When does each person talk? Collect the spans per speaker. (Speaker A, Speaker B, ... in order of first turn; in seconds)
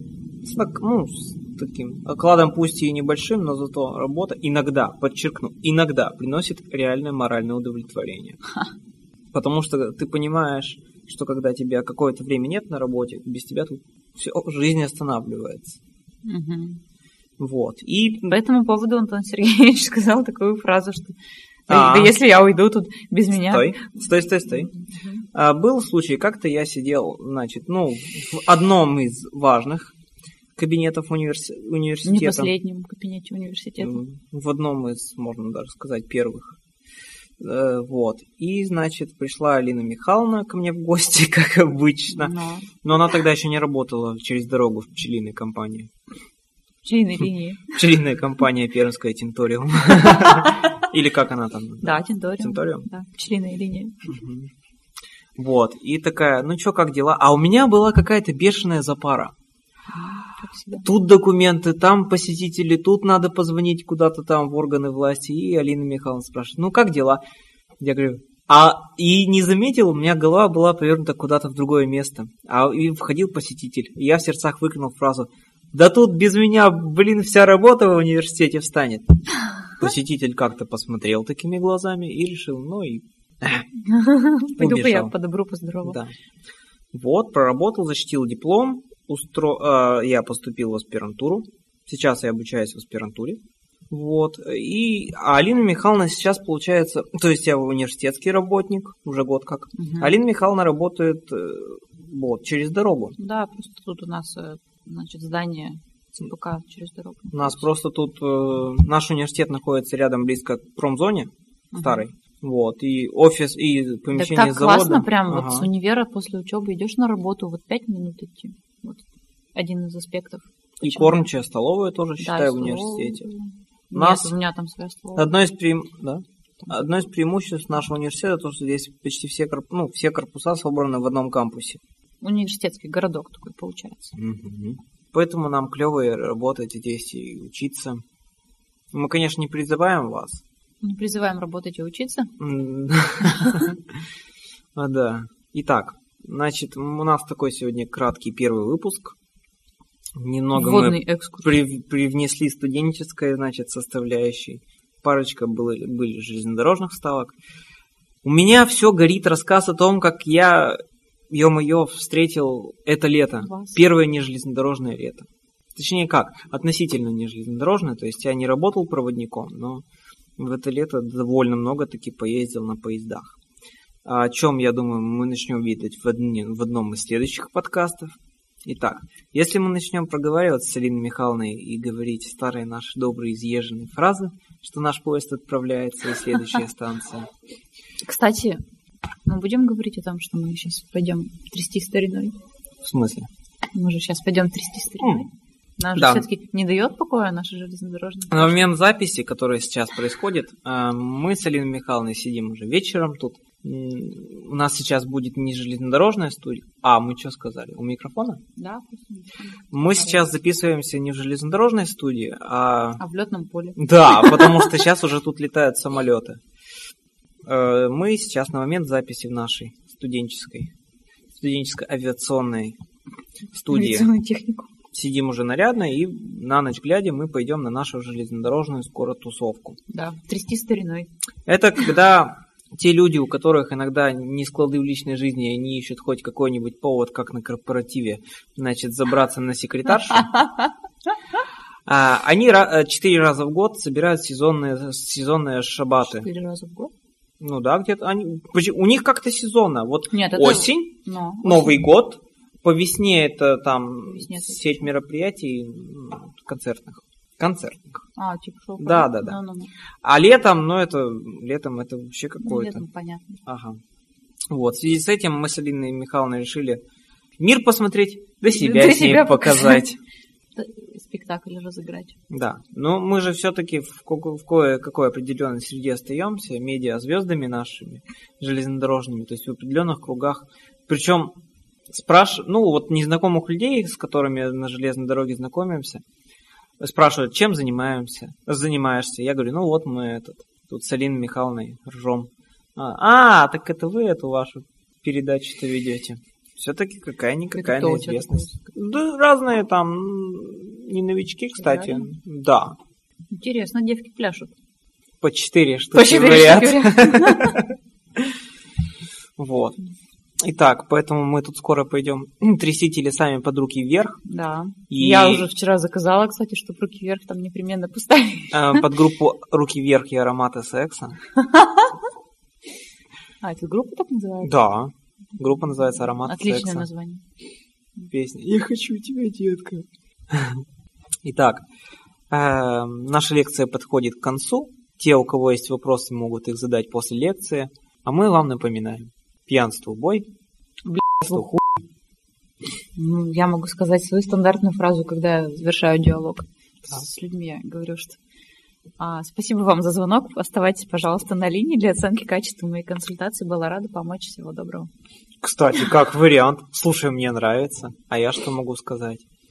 Speaker A: 0.4-8.4, 9.3-15.8, 17.4-18.4, 21.7-22.2, 23.4-24.7, 25.3-29.9, 30.6-32.5, 33.8-36.6, 37.4-45.9, 47.7-52.9, 54.1-54.5, 55.4-59.3, 60.8-67.2, 67.8-79.2, 79.8-83.7, 84.6-85.1, 85.8-86.1, 86.9-93.4, 93.9-103.2, 107.3-115.7, 120.8-123.3, 123.9-124.3, 125.2-131.8, 134.2-138.0, 138.9-140.4, 142.4-143.8, 144.8-149.2, 150.2-157.3, 158.2-160.8, 161.3-169.8, 170.4-173.3, 174.1-178.1, 178.7-187.3, 192.8-193.3, 196.0-196.3, 198.3-208.4, 209.7-213.0, 213.8-216.4, 217.5-220.7, 221.3-222.8, 223.5-224.1, 224.9-229.8, 231.5-240.4, 241.9-246.3, 247.4-258.0, 258.8-259.4, 260.0-262.8, 263.5-263.8, 264.5-266.8, 267.4-270.0, 272.3-281.3, 281.9-286.0, 286.8-302.8, 305.2-307.7, 309.4-309.8, 310.4-314.2, 314.9-315.5, 318.5-321.2, 324.4-326.9, 328.1-330.6, 331.2-331.6, 332.3-340.3, 341.2-341.7, 355.4-359.2
Speaker B: 16.2-16.8, 18.3-21.2, 21.7-23.8, 24.9-25.2, 32.0-34.0, 42.1-42.7, 46.8-47.8, 51.8-54.1, 59.9-60.9, 83.8-86.0, 99.8-100.1, 103.2-107.6, 111.7-112.0, 114.2-121.3, 122.2-125.3, 132.2-134.1, 140.8-142.3, 143.3-143.6, 150.6-151.5, 163.4-163.8, 188.0-188.6, 189.2-192.4, 193.7-198.7, 208.6-210.2, 213.0-214.7, 223.7-224.7, 229.9-231.1, 240.2-240.7, 246.1-246.9, 250.1-251.8, 254.1-254.9, 258.2-259.7, 262.4-263.4, 268.5-269.8, 270.6-272.2, 297.6-298.5, 301.6-302.1, 303.3-304.5, 305.9-307.6, 314.2-318.9, 321.4-322.0, 323.4-324.5, 326.2-327.2, 340.9-341.4, 343.0-348.2, 349.0-354.9